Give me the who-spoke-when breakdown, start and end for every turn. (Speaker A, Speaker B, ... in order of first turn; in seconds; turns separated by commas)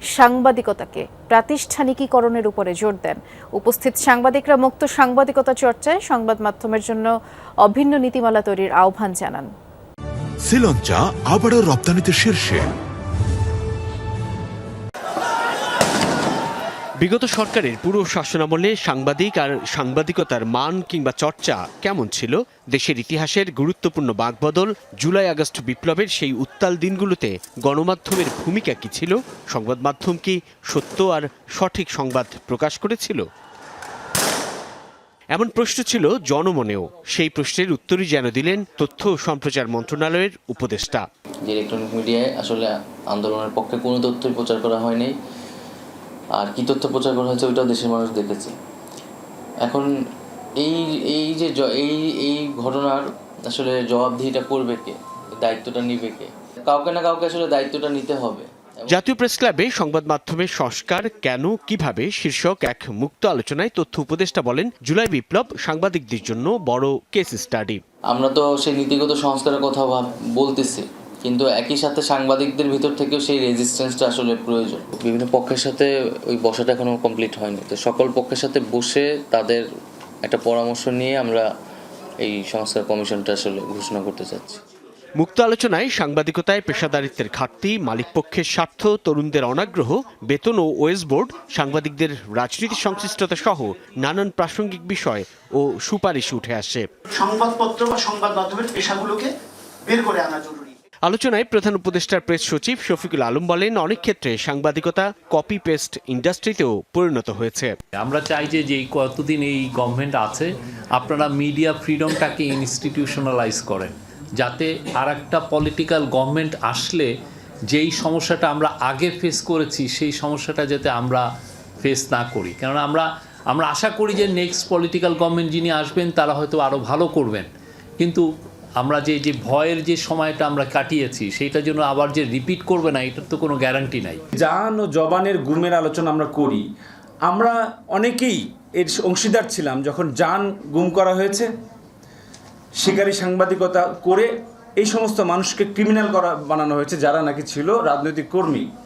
Speaker A: 0.1-7.1, Speaker A: 7.6-9.5, Speaker B: 10.4-12.7, Speaker C: 17.0-33.3, Speaker C: 35.3-41.1, Speaker D: 41.5-45.1, Speaker D: 46.3-48.5, Speaker D: 49.6-49.9, Speaker D: 50.6-59.0, Speaker C: 58.9-67.8, Speaker D: 68.1-79.7, Speaker D: 80.2-81.5, Speaker D: 82.2-84.6, Speaker C: 85.2-96.8, Speaker E: 97.1-99.3, Speaker E: 99.9-100.7, Speaker C: 101.0-107.8, Speaker F: 108.0-117.1, Speaker F: 117.7-121.2, Speaker F: 121.8-128.2, Speaker F: 128.8-134.2, Speaker G: 134.3-136.6, Speaker G: 137.2-141.5, Speaker G: 142.8-148.7